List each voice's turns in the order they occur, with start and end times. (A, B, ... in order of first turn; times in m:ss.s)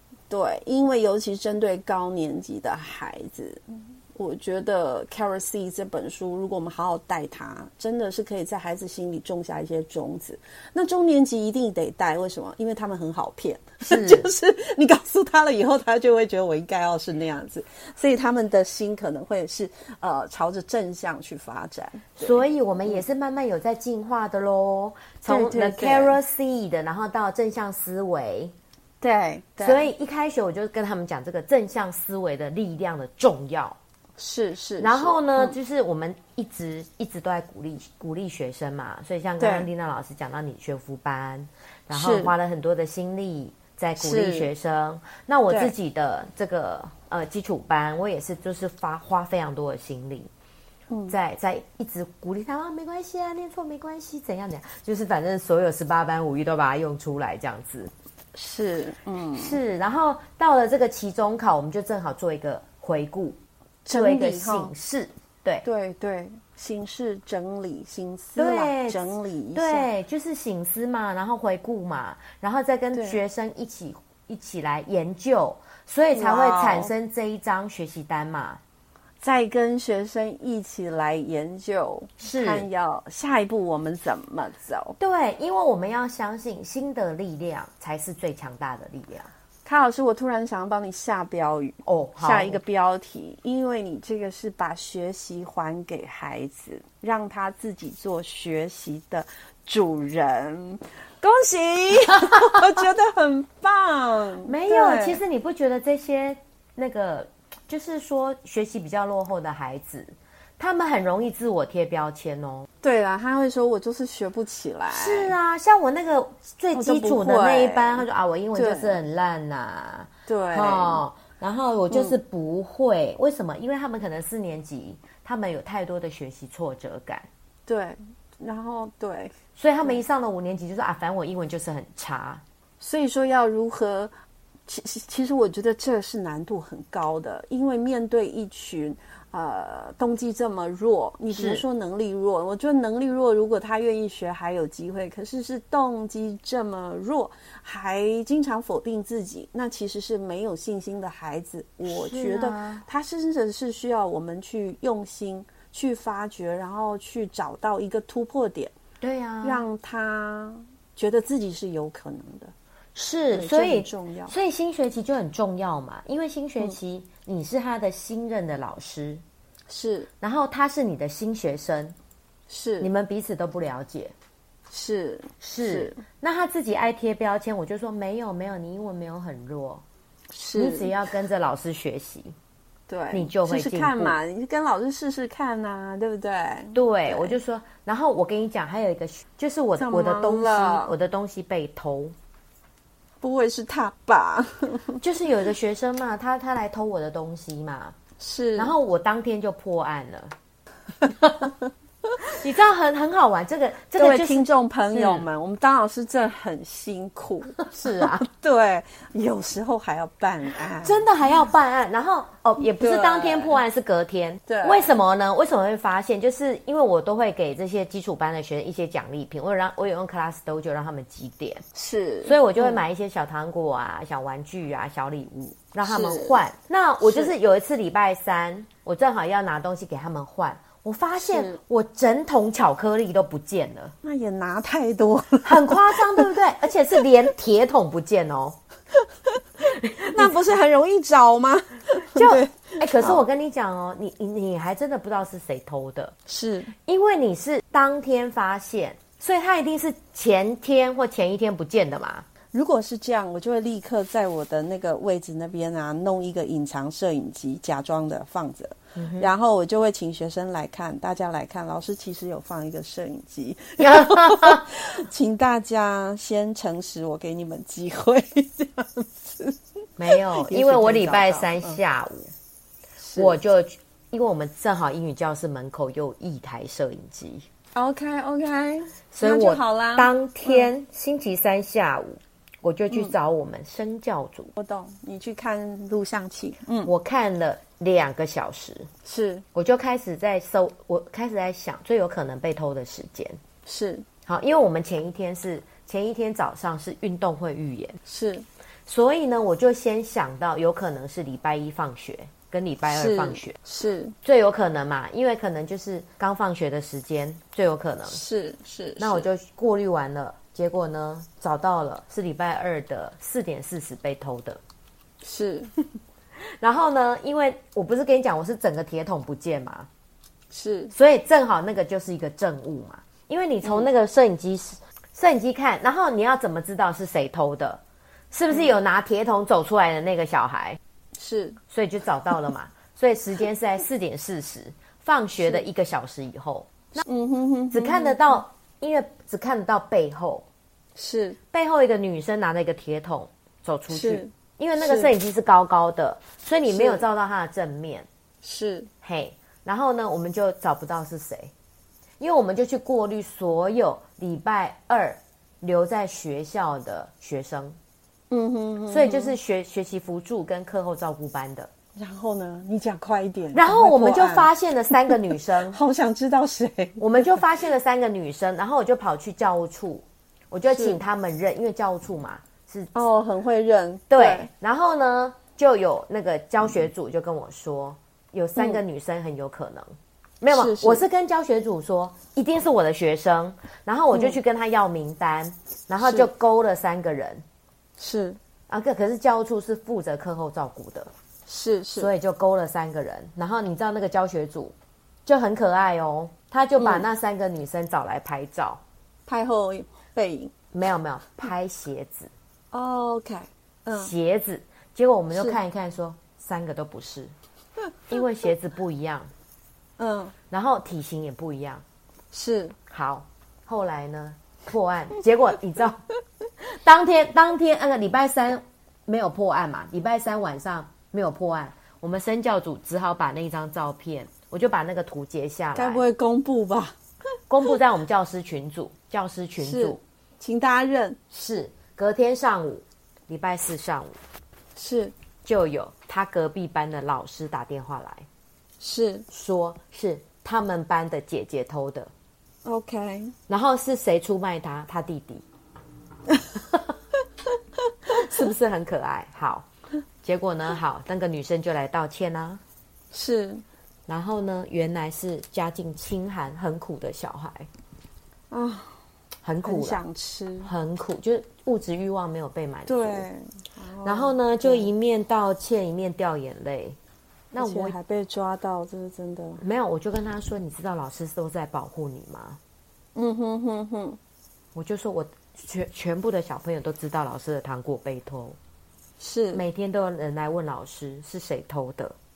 0:00.3-0:03.6 A
0:04.1-0:23.0 A
0:13.8-0:14.3 B
0:22.2-0:28.5 B
0:25.3-0:26.2 A
0:29.0-0:29.9 A
0:29.6-0:33.8 B
0:34.2-0:35.6 A
0:34.8-0:50.3 B
0:39.4-0:39.7 A
0:41.9-0:42.3 A
0:44.0-0:44.5 A
0:50.9-0:51.2 A
0:51.1-0:57.9 B
0:58.3-0:59.6 A
0:59.3-1:03.4 B
1:03.8-1:04.7 A
1:03.9-1:05.6 B
1:05.6-1:09.9 A
1:08.4-1:09.0 B
1:09.5-1:18.6 B
1:12.9-1:13.2 A
1:16.1-1:16.9 A
1:19.2-1:25.0 A
1:22.2-1:22.6 B
1:25.0-1:29.3 B
1:29.6-1:45.2 A
1:31.8-1:32.6 B
1:42.3-1:42.6 B
1:44.4-1:52.7 B
1:52.8-1:55.3 A
1:54.9-2:07.3 B
1:56.7-1:59.0 A
2:00.3-2:01.0 A
2:01.9-2:02.2 A
2:07.7-2:09.3 A
2:09.6-2:12.4 B
2:12.8-2:14.1 A
2:14.7-2:38.7 A
2:21.3-2:21.6 B
2:31.9-2:32.8 B
2:39.0-2:39.6 B
2:39.4-2:42.5 A
2:42.9-2:49.2 B
2:43.3-2:44.3 A
2:49.7-2:50.1 A
2:50.2-2:52.0 B
2:52.5-2:52.9 A
2:52.8-2:54.1 B
2:54.7-2:56.0 A
2:55.4-2:59.8 B
3:00.3-3:00.9 A
3:00.5-3:02.3 B
3:02.9-3:07.4 A
3:03.1-3:04.2 B
3:06.7-3:12.1 B
3:09.8-3:10.9 A
3:13.2-3:15.0 A
3:15.0-3:17.9 B
3:18.2-3:18.7 A
3:18.5-3:20.3 B
3:21.2-3:21.5 B
3:22.2-3:25.3 B
3:24.0-3:31.0 A
3:27.6-3:28.2 B
3:30.8-3:41.6 B
3:32.6-3:33.6 A
3:34.5-3:34.9 A
3:41.7-3:42.8 A
3:42.2-3:53.9 B
3:45.8-3:46.4 A
3:47.0-3:47.3 A
3:51.2-3:51.6 A
3:54.0-3:56.3 A
3:55.4-3:58.6 B
3:59.7-4:00.3 B
4:00.0-4:03.2 A
4:01.9-4:06.1 B
4:06.3-4:06.7 A
4:06.8-4:12.2 B
4:12.5-4:31.8 A
4:19.0-4:19.3 B
4:23.8-4:24.7 B
4:30.0-4:32.3 B
4:33.0-4:33.4 A
4:33.2-4:37.4 B
4:37.7-4:40.7 A
4:39.1-4:44.5 B
4:42.9-4:43.1 A
4:44.6-4:46.9 A
4:46.8-4:48.9 B
4:49.0-4:49.4 A
4:49.5-4:53.4 B
4:53.6-4:54.0 A
4:54.2-4:58.0 B
4:58.0-4:58.4 A
4:58.9-5:03.6 B
5:02.9-5:04.1 A
5:04.2-5:08.2 B
5:08.1-5:09.3 A
5:09.0-5:14.6 B
5:15.2-5:15.7 A
5:16.6-5:19.9 B
5:20.5-5:20.9 A
5:20.9-5:27.8 B
5:23.6-5:23.9 A
5:28.3-5:30.8 B
5:28.5-5:28.7 A
5:31.2-5:31.6 A
5:31.7-5:37.0 B
5:37.0-5:38.2 A
5:37.7-5:40.4 B
5:41.0-5:41.4 A
5:41.5-5:48.0 B
5:43.9-5:45.1 A
5:46.7-5:47.0 A
5:48.4-5:48.9 A
5:49.0-5:51.5 B
5:52.2-5:57.8 B
5:58.3-5:59.4 A
5:58.9-6:01.7 B
6:02.0-6:04.5 A
6:03.5-6:05.8 B
6:05.0-6:07.4 A
6:07.0-6:12.9 B
6:10.7-6:11.0 A
6:12.9-6:14.5 A
6:14.1-6:27.4 B
6:20.5-6:21.0 A
6:24.1-6:24.4 A
6:26.0-6:26.3 A
6:28.0-6:28.4 A
6:28.7-6:31.1 B
6:31.5-6:32.1 A
6:32.0-6:34.7 B
6:35.2-6:38.8 B
6:36.8-6:37.0 A
6:39.3-6:40.5 A
6:40.7-6:42.3 B
6:42.7-6:44.1 A
6:43.9-6:47.3 B
6:45.3-6:45.6 A
6:48.1-6:49.3 B
6:50.0-6:50.3 A
6:50.5-6:51.8 B
6:52.3-6:52.8 A
6:52.9-6:56.0 B
6:56.6-7:06.1 B
7:05.7-7:07.0 A
7:07.5-7:10.0 B
7:09.6-7:11.2 A
7:11.3-7:14.2 B
7:14.8-7:15.1 A
7:15.4-7:18.2 B
7:18.8-7:19.3 A
7:19.3-7:22.1 B
7:22.6-7:23.3 A
7:23.5-7:25.4 B
7:28.1-7:28.5 A
7:28.1-7:29.7 B
7:30.2-7:32.6 B
7:33.1-7:33.6 A
7:34.1-7:37.7 B
7:38.5-7:39.0 A
7:39.4-7:40.0 B
7:39.6-7:40.7 A
7:40.6-7:43.2 B
7:42.9-7:44.9 A
7:44.0-7:47.0 B
7:47.5-7:49.6 A
7:47.5-7:48.0 B
7:49.6-7:52.6 B
7:53.1-7:54.2 A
7:54.7-7:58.6 B
7:59.2-7:59.6 A
7:59.5-8:02.1 B